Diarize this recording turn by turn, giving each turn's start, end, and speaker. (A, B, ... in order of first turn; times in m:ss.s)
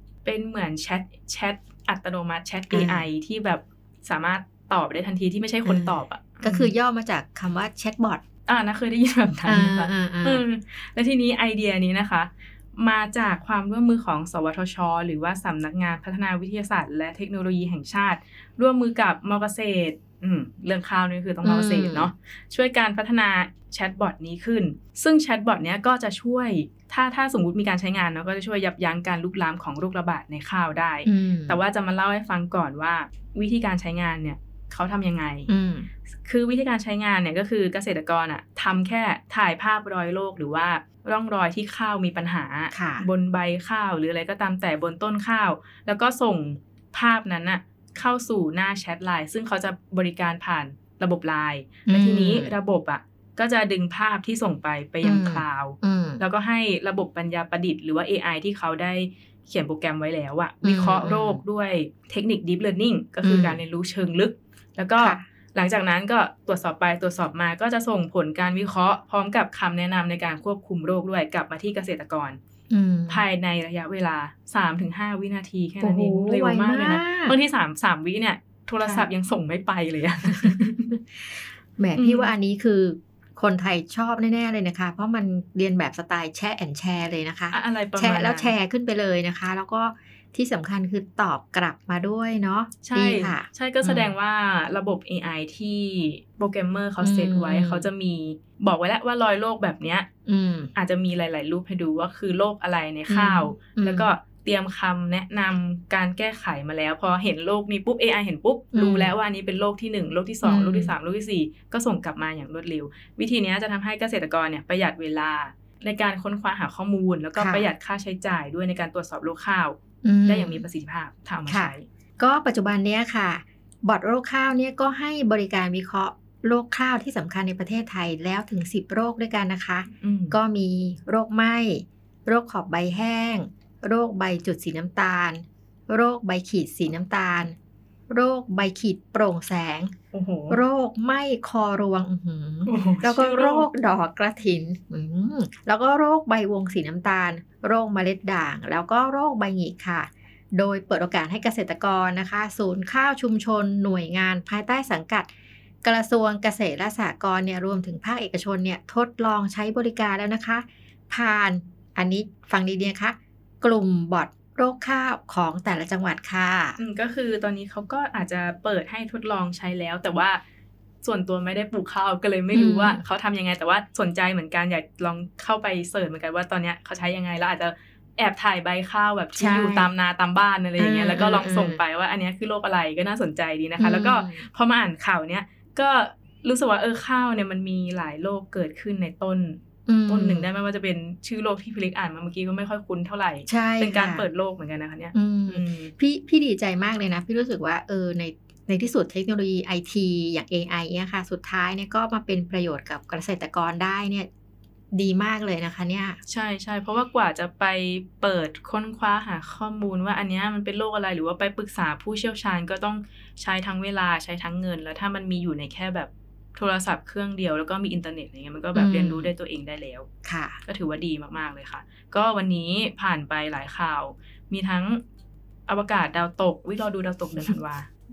0:00.2-0:06.7 A
0:02.7-0:03.1 B
0:05.6-0:08.2 B
0:08.5-0:35.5 A
0:09.5-0:10.4 B
0:21.4-0:22.1 B
0:31.0-0:31.6 B
0:35.5-0:35.9 B
0:36.2-1:12.4 A
0:42.7-0:43.0 B
0:51.9-0:52.5 B
0:55.0-0:56.2 B
1:00.6-1:01.4 B
1:03.2-1:03.6 B
1:12.7-1:13.2 B
1:13.1-1:20.9 A
1:15.8-1:17.4 B
1:21.8-1:34.1 B
1:22.0-1:22.3 A
1:27.5-1:28.5 A
1:32.8-1:40.1 A
1:37.0-1:37.9 B
1:40.2-1:40.7 B
1:40.7-2:01.8 A
1:43.1-1:44.1 B
1:48.7-1:49.1 B
1:50.4-1:50.9 B
1:57.4-1:57.7 B
2:00.0-2:00.6 B
2:01.5-2:17.6 B
2:10.0-2:10.4 A
2:18.1-2:19.9 B
2:20.1-2:20.6 A
2:20.5-2:35.3 B
2:22.6-2:23.7 A
2:35.8-2:46.8 B
2:46.8-2:50.4 A
2:51.0-3:15.9 A
2:52.5-2:53.0 B
2:59.4-2:59.9 B
3:00.8-3:01.8 B
3:03.8-3:04.4 B
3:09.9-3:10.5 B
3:13.5-3:14.3 B
3:15.1-3:24.3 B
3:24.9-3:26.2 B
3:26.3-3:40.1 A
3:38.7-3:39.3 B
3:40.2-3:40.6 B
3:40.6-3:45.0 A
3:45.7-3:47.9 A